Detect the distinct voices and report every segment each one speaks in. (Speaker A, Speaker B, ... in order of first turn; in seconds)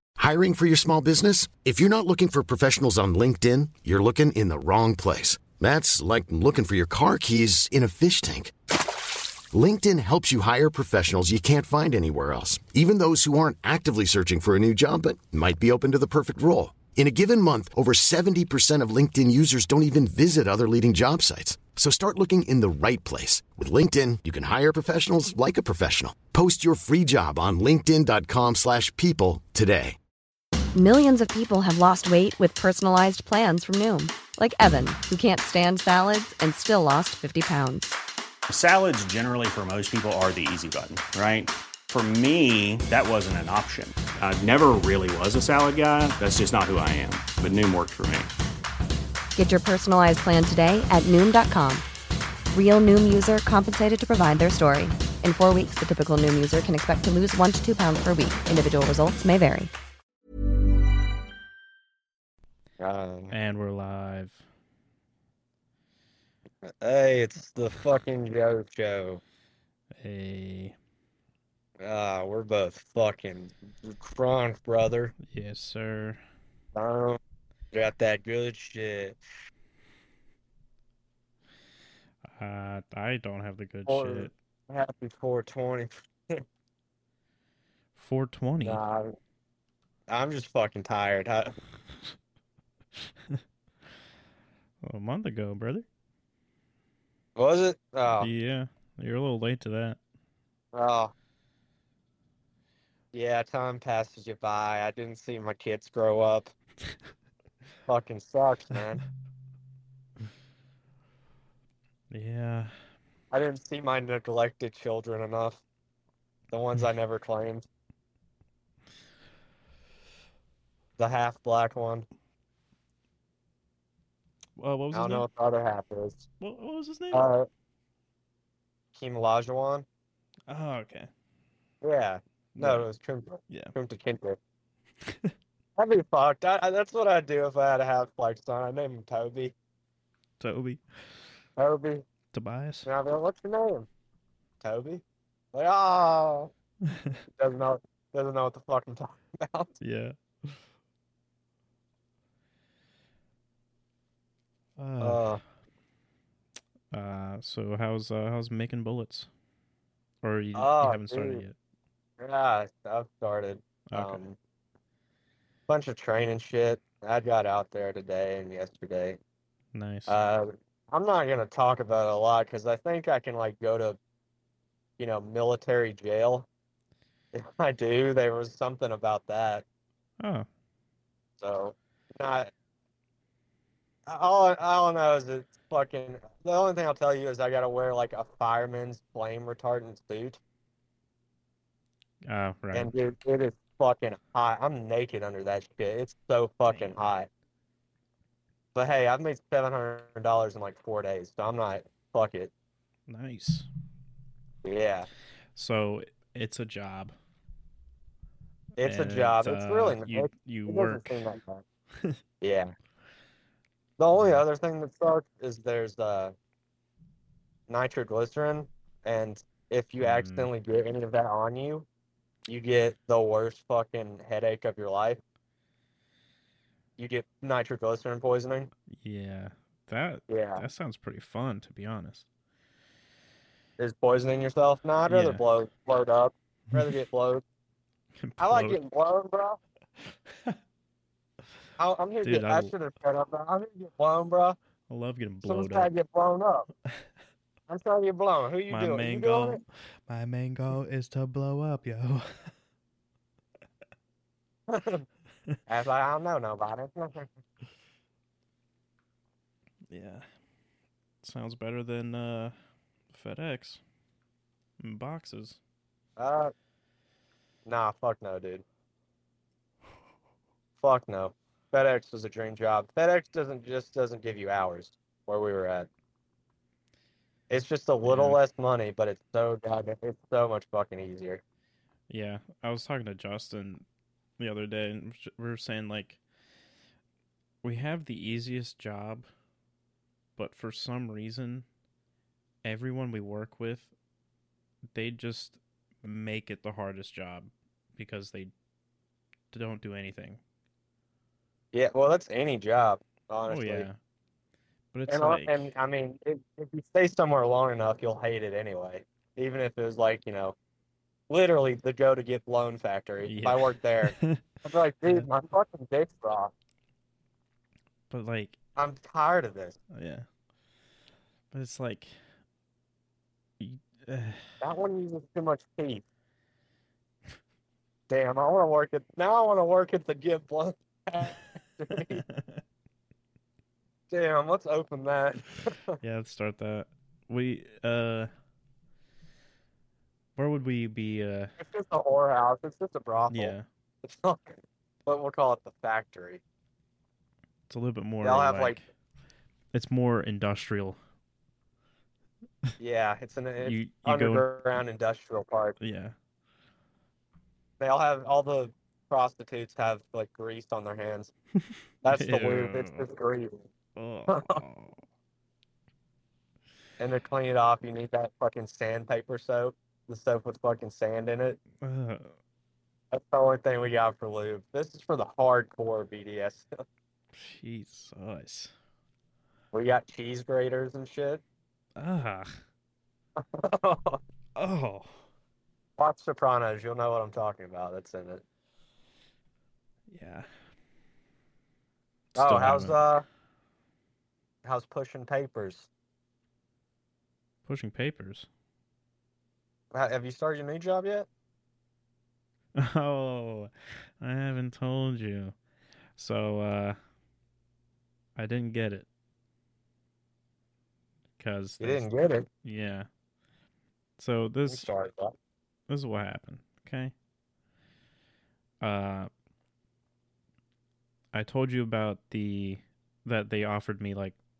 Speaker A: 0.2-8.5, 9.5-30.0
Speaker B: 30.7-37.9, 49.4-51.9, 52.5-59.7
Speaker C: 38.5-48.3
Speaker D: 62.8-63.3, 66.6-69.2, 71.8-75.1, 76.7-77.2, 77.7-79.2, 83.8-86.4, 88.6-89.2, 90.1-91.5, 97.3-98.3, 100.7-101.1, 103.1-106.5, 107.9-109.0, 113.3-115.6, 116.5-117.7, 121.0-122.0, 124.9-126.2, 127.1-127.5, 128.9-129.8, 131.8-134.4, 135.8-139.5, 141.6-142.0, 142.8-143.9, 144.6-146.5, 147.4-149.7, 155.0-155.4, 160.5-161.4, 162.2-164.4, 165.7-169.2, 170.1-174.0, 175.0-176.5, 177.3-179.6, 181.4-182.5, 184.1-190.4, 192.7-197.3, 198.7-202.5, 204.6-205.1, 208.8-211.6, 212.4-212.7, 214.0-216.3, 217.7-221.9, 222.5-225.2, 227.0-228.7, 230.3-230.6, 233.8-237.4, 238.4-239.6, 241.8-244.6, 245.4-246.7, 247.7-249.6, 254.7-255.0, 255.7-257.3, 266.2-266.5, 267.6-268.6, 270.8-275.9, 277.5-281.4, 301.7-303.9, 305.1-310.6, 311.3-314.1, 314.6-316.5, 318.8-319.8, 324.6-326.0, 328.1-332.2, 334.1-336.0, 341.6-346.4, 348.2-348.8, 352.8-355.7, 357.8-361.3, 362.0-363.6, 364.3-364.6, 367.0-371.6, 373.1-376.7, 379.7-381.4, 383.4-384.2, 386.0-388.4, 392.4-393.2, 394.6-395.9, 399.9-401.3, 411.8-412.5, 414.7-415.3
Speaker E: 63.3-64.4, 70.0-70.7, 75.3-76.2, 82.2-84.3, 88.0-88.8, 94.8-95.8, 98.2-100.0, 112.1-112.8, 124.6-125.3, 126.4-127.3, 130.5-131.1, 132.6-132.8, 135.1-135.3, 140.4-140.8, 142.3-142.9, 146.9-147.2, 149.8-150.6, 154.8-155.4, 156.9-159.3, 160.2-161.5, 163.9-164.2, 169.7-170.2, 180.2-180.4, 192.3-192.9, 196.7-196.9, 203.1-203.7, 205.5-207.1, 208.8-211.2, 214.2-214.4, 220.0-220.5, 228.9-232.2, 235.1-235.4, 238.2-238.8, 242.2-242.7, 244.9-245.9, 248.7-252.5, 259.9-260.2, 261.2-262.5, 263.1-263.8, 264.8-265.6, 278.0-278.4, 282.1-283.8, 284.4-286.2, 287.6-289.3, 290.4-291.6, 292.6-293.9, 294.9-298.5, 299.5-300.4, 303.5-304.0, 304.9-305.7, 313.2-314.4, 318.1-318.6, 319.9-320.2, 321.5-322.1, 323.6-324.4, 332.3-332.6, 336.0-338.3, 340.4-341.5, 343.3-343.6, 347.7-348.8, 349.7-351.0, 353.6-354.5, 355.8-356.1, 361.6-363.0, 363.9-364.9, 371.8-372.3, 377.3-378.7, 382.0-382.6, 384.6-385.2, 390.1-390.5, 392.3-392.9, 397.6-398.5, 402.7-405.5, 406.2-407.0, 408.4-409.1, 411.4-412.1, 412.6-413.1, 414.2-414.9, 415.9-417.1, 418.8-419.3, 421.3-424.4